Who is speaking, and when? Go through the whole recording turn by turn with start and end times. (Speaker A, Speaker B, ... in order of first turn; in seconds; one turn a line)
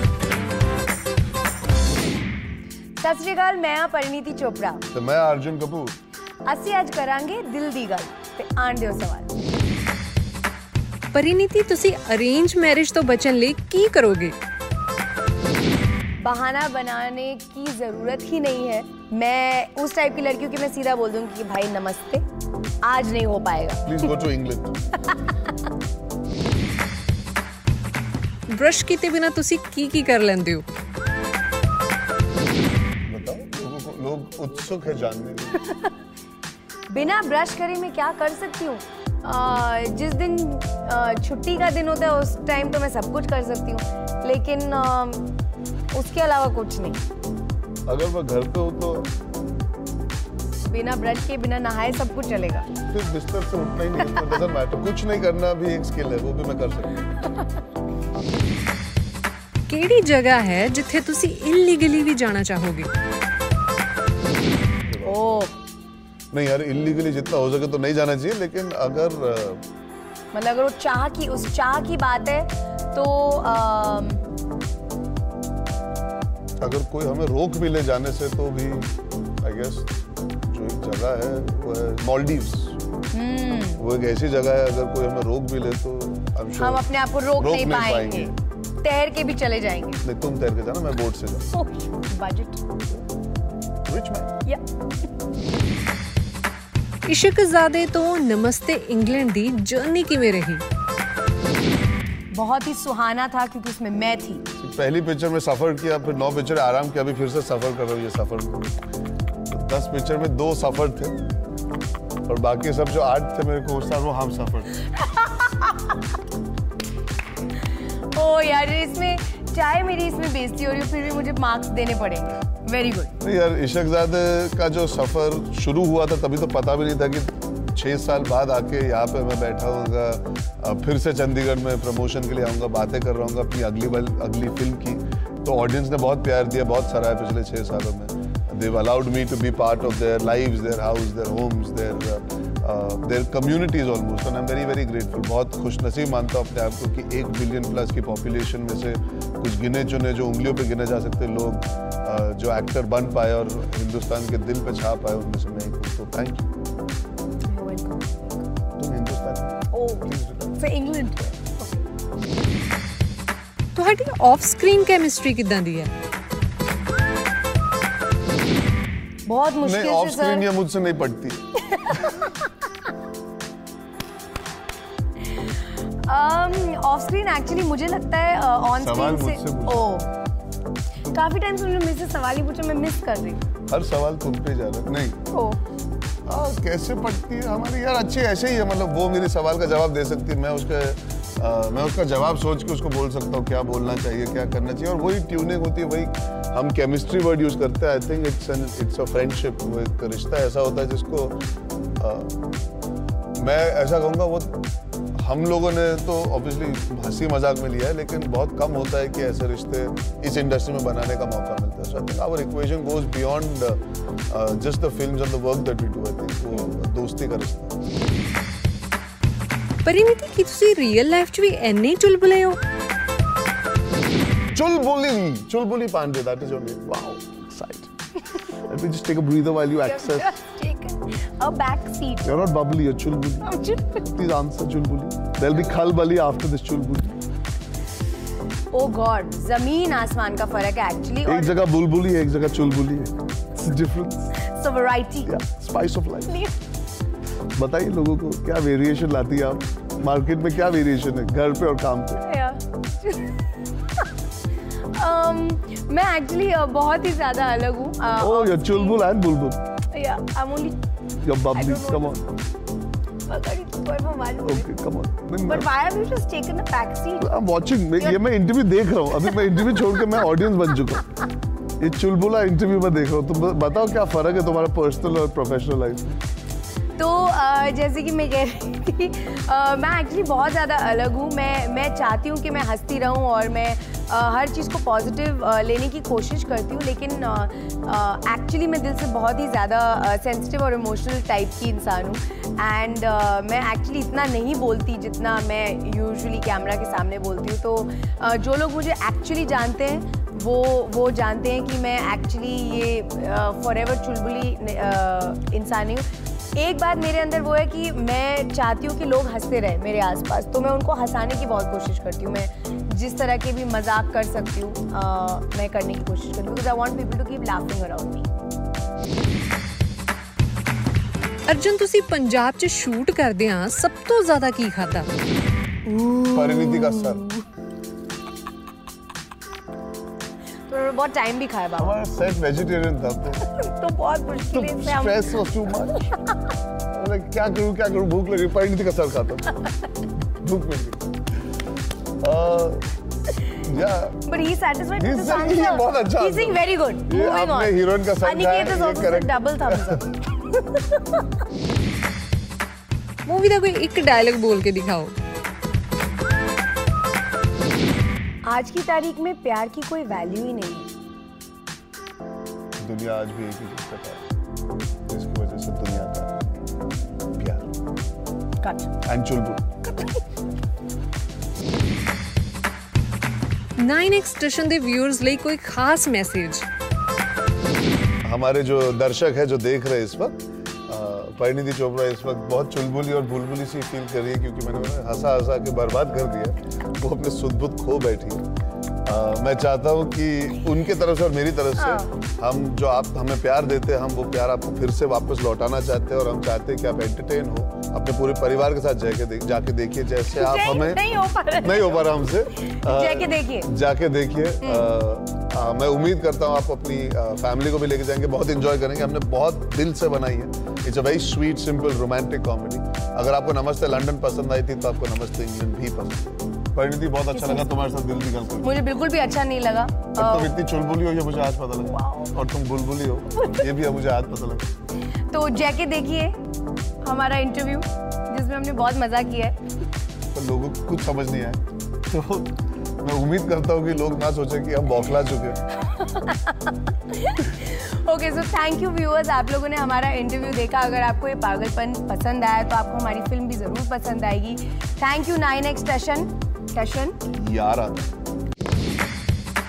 Speaker A: 3.0-4.8
Speaker B: 4.9-6.0
Speaker A: 6.5-9.3
Speaker C: 11.1-14.4
Speaker A: 16.2-22.2
Speaker A: 22.8-23.9
Speaker B: 23.9-24.8
Speaker C: 28.5-30.6
Speaker B: 33.1-35.6
Speaker A: 35.6-35.9
Speaker A: 36.9-45.3
Speaker A: 45.9-47.0
Speaker B: 47.9-49.1
Speaker A: 50.6-52.7
Speaker B: 52.9-57.1
Speaker A: 54.0-54.4
Speaker C: 59.7-62.9
Speaker B: 64.9-65.5
Speaker A: 65.0-65.5
Speaker B: 66.3-69.7
Speaker A: 70.3-74.2
Speaker B: 76.6-82.8
Speaker A: 83.1-83.8
Speaker B: 83.8-88.3
Speaker A: 86.6-90.0
Speaker B: 90.0-91.6
Speaker A: 91.5-92.6
Speaker B: 93.9-94.3
Speaker C: 97.1-100.6
Speaker A: 102.3-104.5
Speaker B: 104.6-108.6
Speaker B: 109.5-111.2
Speaker B: 112.3-114.8
Speaker A: 115.0-115.8
Speaker A: 118.1-123.1
Speaker B: 123.2-156.5
Speaker A: 157.5-158.4
Speaker B: 158.8-160.6
Speaker A: 159.7-161.8
Speaker C: 163.8-165.9
Speaker A: 169.3-170.5
Speaker B: 169.6-171.6
Speaker A: 176.1-180.1
Speaker B: 178.8-180.0
Speaker A: 181.1-183.4
Speaker B: 183.7-185.2
Speaker A: 185.3-185.6
Speaker B: 186.3-201.4
Speaker B: 202.0-202.4
Speaker B: 203.4-204.6
Speaker B: 205.2-217.8
Speaker C: 219.8-222.6
Speaker B: 224.5-227.9
Speaker B: 228.5-230.4
Speaker A: 229.8-232.5
Speaker B: 232.2-237.2
Speaker A: 233.4-234.0
Speaker A: 238.7-241.6
Speaker B: 241.3-244.3
Speaker A: 244.4-245.3
Speaker B: 245.2-246.3
Speaker A: 246.3-246.5
Speaker B: 247.6-252.2
Speaker A: 252.2-253.5
Speaker A: 254.9-259.0
Speaker B: 258.2-259.6
Speaker A: 259.9-260.8
Speaker B: 261.2-262.2
Speaker A: 261.5-262.2
Speaker A: 263.2-264.7
Speaker B: 264.4-265.7
Speaker A: 265.4-267.4
Speaker B: 267.2-271.2
Speaker A: 269.2-269.5
Speaker B: 271.8-276.2
Speaker A: 277.0-318.3
Speaker C: 321.5-325.1
Speaker A: 325.9-327.1
Speaker B: 326.3-327.3
Speaker A: 330.7-332.0
Speaker B: 331.8-333.4
Speaker A: 333.4-335.4
Speaker B: 334.5-336.1
Speaker A: 335.9-336.2
Speaker B: 336.9-339.6
Speaker B: 340.4-341.0
Speaker B: 342.2-342.9
Speaker B: 343.5-344.2
Speaker A: 344.3-351.0
Speaker B: 345.0-350.0
Speaker C: 353.2-355.1
Speaker A: 358.5-360.9
Speaker B: 362.8-364.2
Speaker B: 365.1-366.4
Speaker B: 367.4-367.7
Speaker A: 368.6-368.9
Speaker B: 369.0-369.8
Speaker A: 369.9-370.1
Speaker C: 373.8-376.7
Speaker B: 378.2-388.4
Speaker B: 389.1-401.0
Speaker A: 391.8-392.1
Speaker A: 400.3-403.7
Speaker B: 401.6-418.7
Speaker A: 404.6-404.9
Speaker A: 417.3-417.7
Speaker A: 418.6-420.6
Speaker B: 420.1-424.7
Speaker A: 421.9-422.3
Speaker A: 423.4-423.6
Speaker A: 425.3-426.3
Speaker A: 427.0-429.6
Speaker B: 430.3-435.6
Speaker A: 435.9-447.2
Speaker B: 447.3-448.1